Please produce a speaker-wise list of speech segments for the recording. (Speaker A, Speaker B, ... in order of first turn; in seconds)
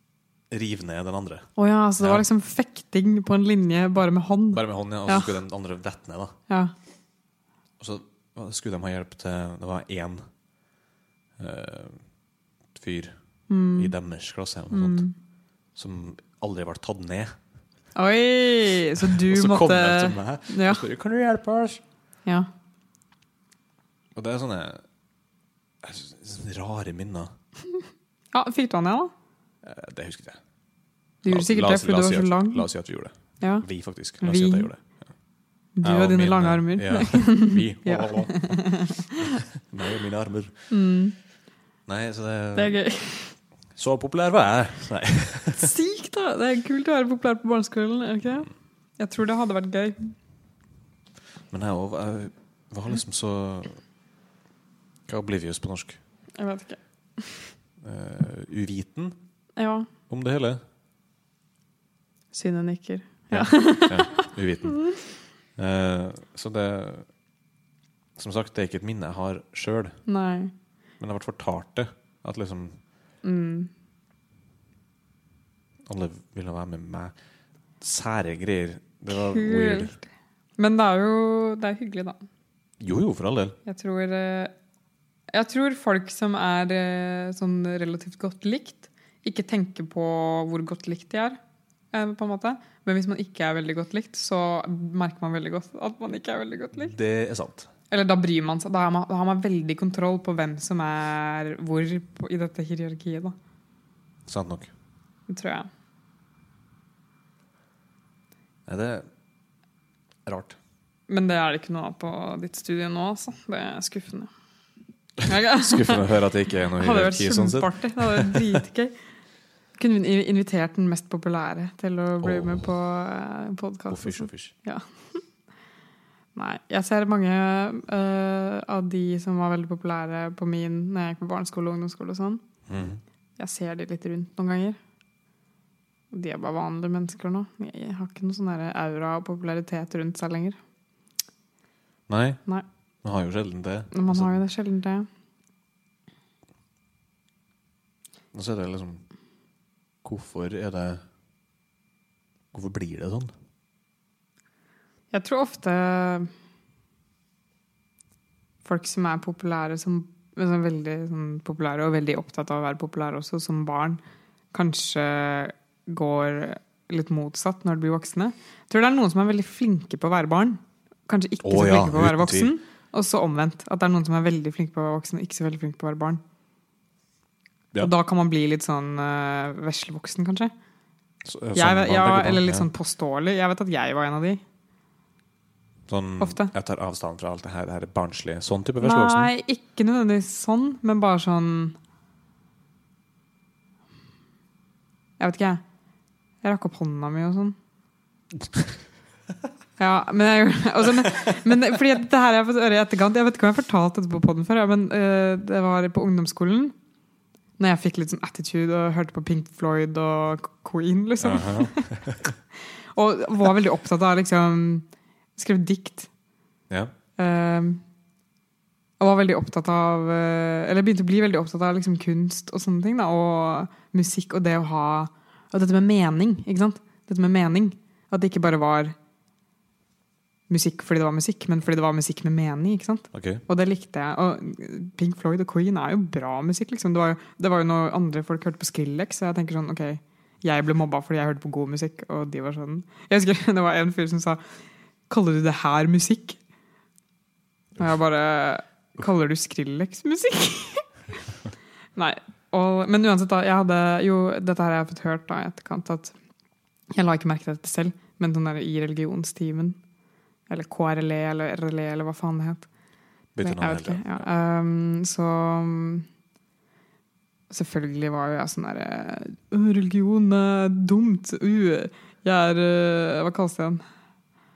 Speaker A: 0.5-2.2, 4.5-6.3, 7.8-10.2, 11.4-12.0, 12.7-13.1, 13.7-15.1, 15.8-17.3, 19.0-21.8, 24.1-24.8, 25.8-27.3, 29.6-30.4, 31.2-34.9, 35.8-40.7, 41.9-42.8, 43.8-45.7, 51.5-53.8, 55.1-56.0, 57.8-59.2, 60.1-60.6, 63.3-64.9, 65.5-67.1, 68.2-70.0, 71.0-72.8, 75.8-77.1, 77.8-80.0, 82.8-83.6, 96.7-97.7, 104.2-104.7, 108.7-109.1, 110.2-110.6, 115.5-118.5, 122.2-122.7, 123.9-124.5, 132.7-133.0, 142.1-142.4, 143.0-144.3, 148.3-149.0, 150.0-151.0, 152.5-153.3, 171.4-172.5, 181.2-182.7, 185.9-189.3, 211.2-212.3, 233.1-233.4, 263.3-264.3
Speaker B: 1.6-5.3, 13.5-13.9, 14.7-15.1, 17.9-20.8, 28.3-29.1, 31.2-32.6, 33.4-33.6, 34.2-34.7, 35.8-39.4, 40.7-41.1, 42.5-43.4, 45.6-50.1, 56.4-57.4, 59.5-59.9, 62.3-64.3, 70.1-70.5, 73.2-73.7, 79.1-80.0, 80.6-82.2, 83.6-84.5, 85.3-91.4, 91.9-96.9, 97.9-103.3, 105.3-105.7, 111.1-114.3, 115.2-116.1, 116.8-118.9, 119.8-125.2, 126.3-132.4, 133.4-134.8, 136.1-140.6, 143.9-145.1, 155.1-156.3, 158.6-164.0, 164.5-176.2, 177.8-180.5, 181.5-184.4, 186.2-186.5, 188.8-191.8, 195.2-195.6, 196.4-197.6, 199.8-206.7, 207.6-212.0, 212.9-216.1, 217.2-217.8, 219.0-228.9, 230.5-244.4, 245.1-246.4, 247.8-250.9, 251.9-256.1, 256.9-259.8, 260.5-262.7, 263.4-266.1, 267.5-273.8